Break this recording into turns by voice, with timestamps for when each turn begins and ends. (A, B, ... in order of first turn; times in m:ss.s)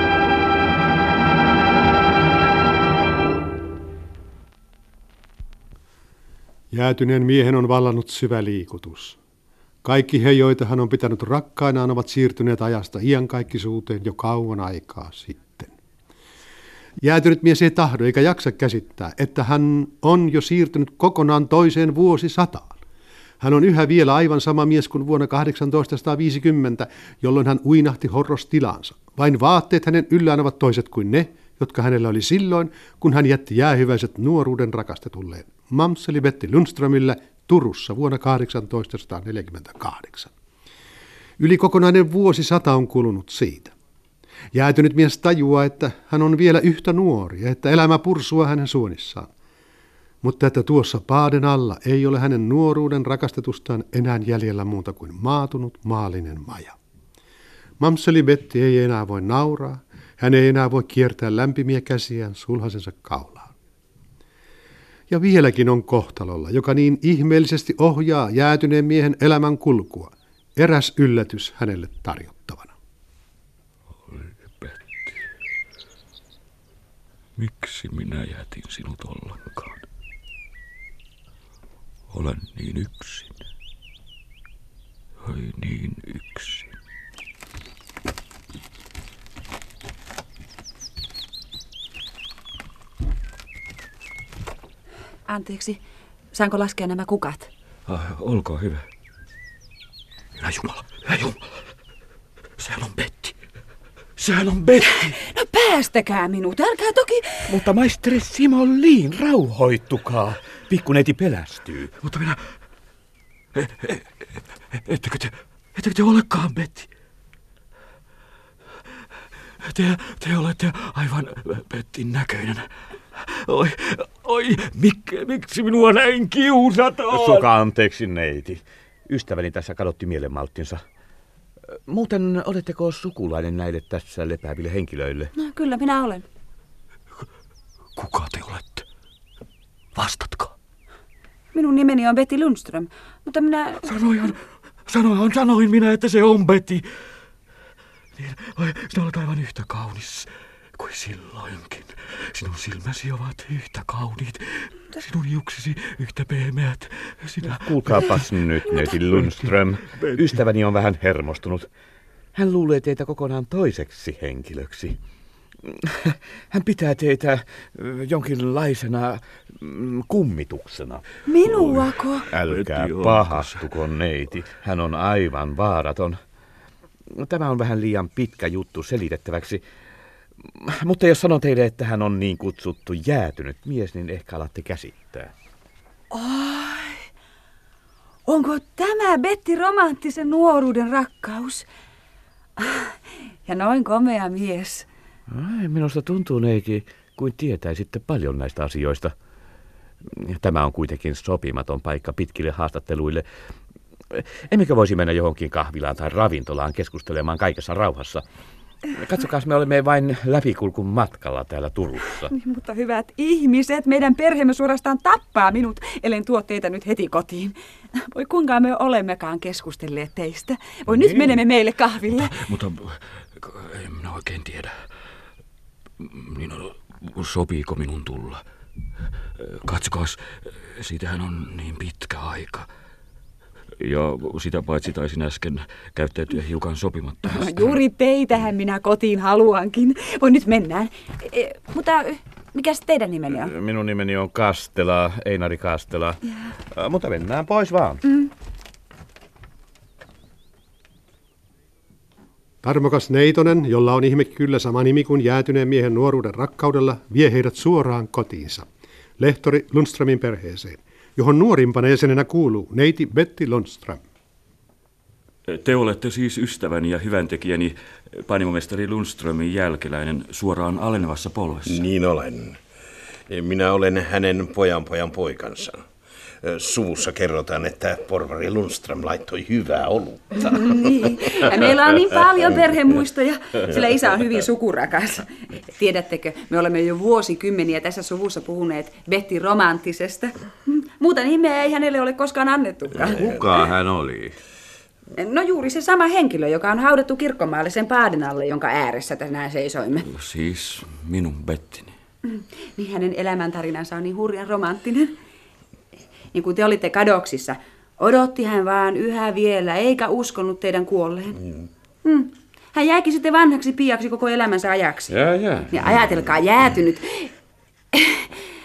0:06.7-0:09.2 A
0:09.8-0:15.8 A
0:17.0-0:22.8 A
0:23.4-0:40.3 A
0:41.4-0:43.7 A
0:44.5-0:49.3 A
0:50.2-0:56.8 A
0:57.8-1:03.5 A
1:05.1-1:12.7 A
1:14.0-1:15.2 B
1:17.4-1:19.8 B
1:22.1-1:23.4 B
1:25.2-1:26.7 B
1:35.3-1:35.8 C
1:36.3-1:37.5 C
1:37.9-1:38.9 B
1:40.4-1:41.5 B
1:42.6-1:43.4 B
1:44.2-1:45.2 B
1:44.8-1:47.6 C
1:47.5-1:51.9 D
1:52.0-1:52.5 B
1:53.6-1:54.1 B
1:54.7-1:56.9 B
1:59.6-2:07.5 B
2:07.1-2:10.8 D
2:11.7-2:15.3 D
2:15.4-2:16.2 C
2:18.0-2:18.8 B
2:20.0-2:20.5 B
2:21.5-2:23.8 C
2:23.8-2:26.9 B
2:28.2-2:40.4 B
2:37.4-2:41.7 D
2:42.4-2:45.0 D
2:45.6-2:51.0 D
2:51.3-2:52.3 C
2:51.4-2:53.7 B
2:52.3-2:56.2 D
2:57.1-2:59.6 D
3:00.4-3:05.3 D
3:06.1-3:07.1 C
3:08.3-3:11.7 C
3:12.6-3:14.9 C
3:15.3-3:19.2 D
3:20.0-3:23.3 D
3:24.1-3:28.2 D
3:28.9-3:32.3 D
3:32.2-3:42.4 C
3:40.9-3:41.4 B
3:42.1-3:44.8 B
3:46.0-3:48.4 B
3:49.4-3:52.7 B
3:53.8-3:57.8 B
3:57.3-4:03.5 C
4:03.3-4:08.0 D
4:12.6-4:18.7 A
4:19.2-4:24.0 A
4:25.5-4:31.8 B
4:31.7-4:32.6 E
4:33.3-4:35.8 E
4:36.4-4:40.6 E
4:40.4-4:53.4 C
4:53.0-4:54.4 D
4:55.1-5:00.1 C
5:00.1-5:02.0 B
5:02.3-5:05.1 C
5:06.3-5:11.4 C
5:12.0-5:15.2 C
5:15.1-5:15.7 D
5:15.7-5:17.3 C
5:17.9-5:18.4 C